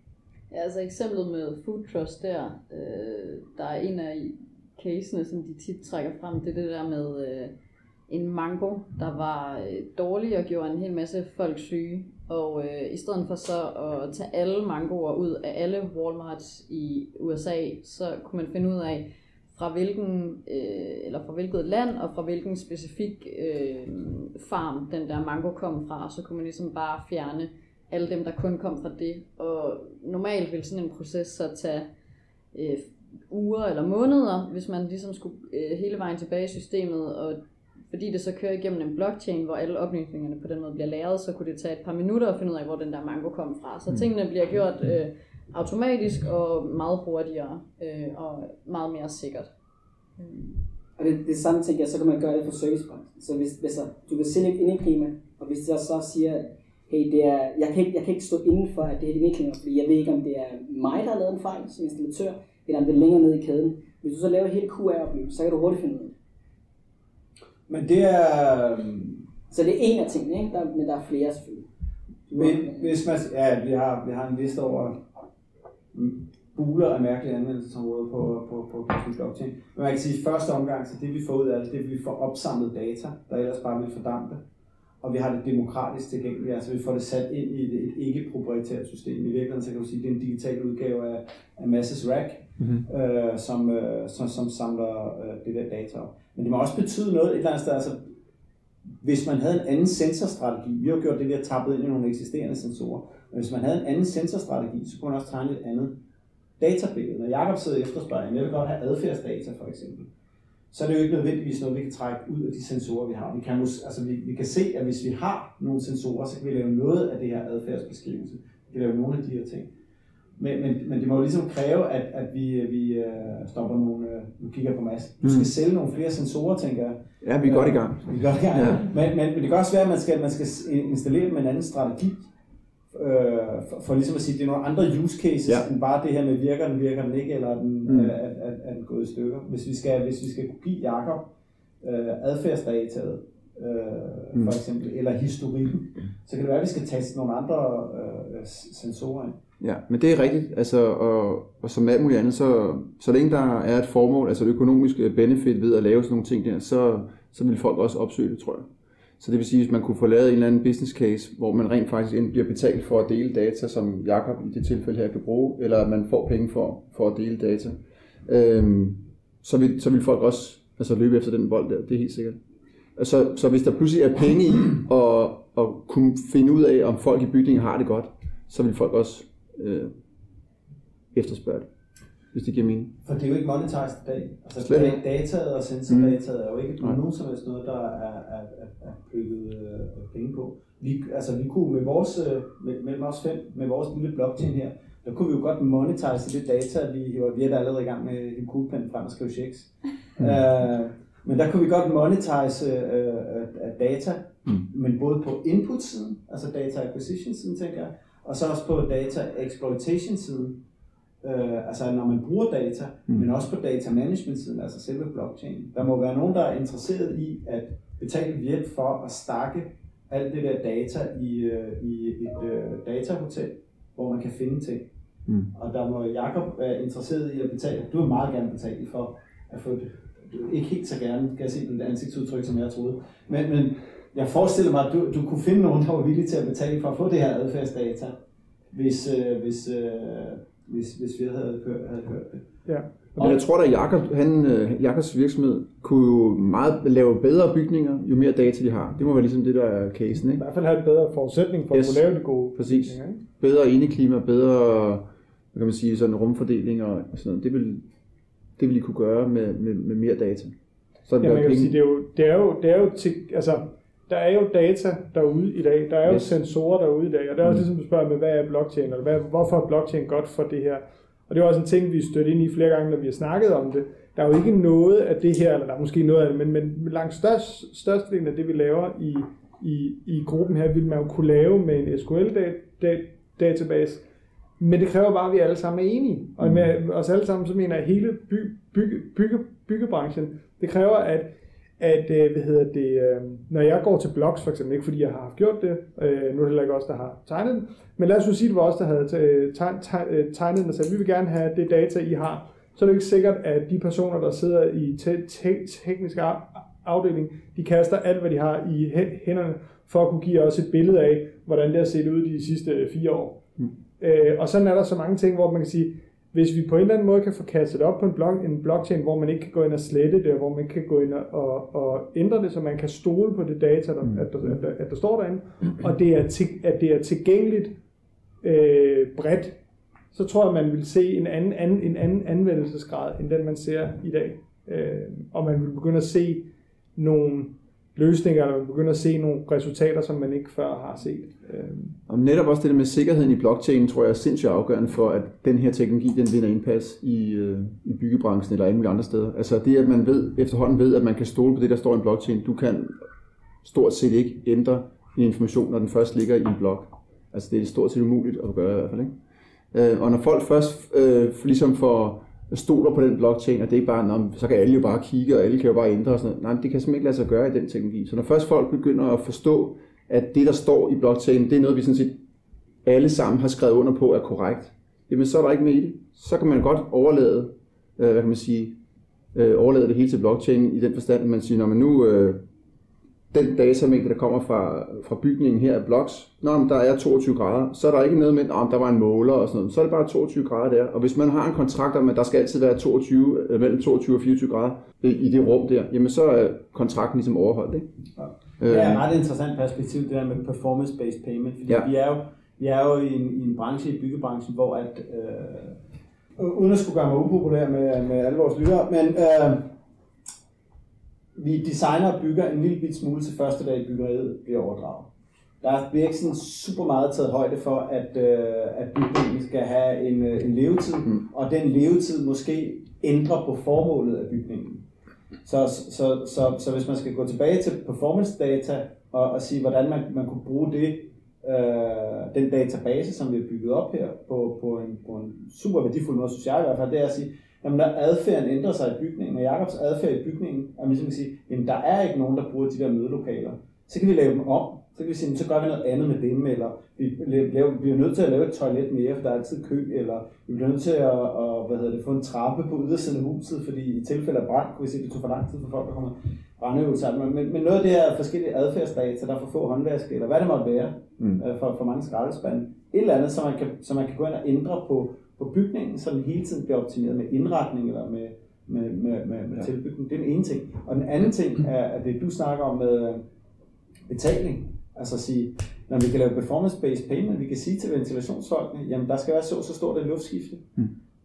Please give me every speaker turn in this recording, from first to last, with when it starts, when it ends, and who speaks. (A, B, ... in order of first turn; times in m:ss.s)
0:00.5-0:07.5 A
0:08.1-0:31.9 A
0:32.5-0:37.4 A
0:37.9-0:49.5 A
0:50.2-0:50.6 A
0:51.0-1:06.1 B
1:07.7-1:09.2 C
1:09.5-1:11.7 B
1:12.3-1:12.9 B
1:12.3-1:15.0 C
1:15.9-1:24.4 C
1:25.0-1:38.1 C
1:39.0-1:46.0 C
1:46.6-1:50.1 C
1:50.7-1:59.7 C
2:00.4-2:12.3 C
2:07.2-2:08.8 D
2:12.9-2:21.3 C
2:17.9-2:18.1 D
2:21.8-2:29.4 C
2:29.6-2:38.7 D
2:39.2-2:52.4 D
2:53.0-2:59.9 D
3:01.1-3:01.7 D
3:02.3-3:02.9 D
3:03.0-3:30.6 C
3:04.6-3:05.0 D
3:05.9-3:06.2 D
3:31.2-3:44.9 C
3:45.5-3:58.2 C
3:58.7-4:02.5 C
4:02.7-4:03.4 E
4:03.2-4:10.4 D
4:10.3-4:13.2 E
4:11.7-4:17.8 D
4:18.6-4:20.5 D
4:21.1-4:21.7 D
4:21.2-4:44.0 E
4:26.0-4:26.4 D
4:44.6-4:51.3 E
4:51.8-5:13.4 E
5:14.0-5:27.7 E
5:28.4-5:29.6 E
5:30.1-5:42.0 E
5:42.1-5:53.0 D
5:53.6-5:59.1 D
5:59.7-6:12.2 D
6:12.8-6:18.8 D
6:19.3-6:22.4 D
6:23.3-6:37.9 D
6:38.2-6:45.8 C
6:38.6-6:39.0 D
6:46.4-6:49.7 C
6:51.4-6:55.1 C
6:55.6-7:04.8 C
7:05.4-7:53.2 C
7:54.1-8:00.6 C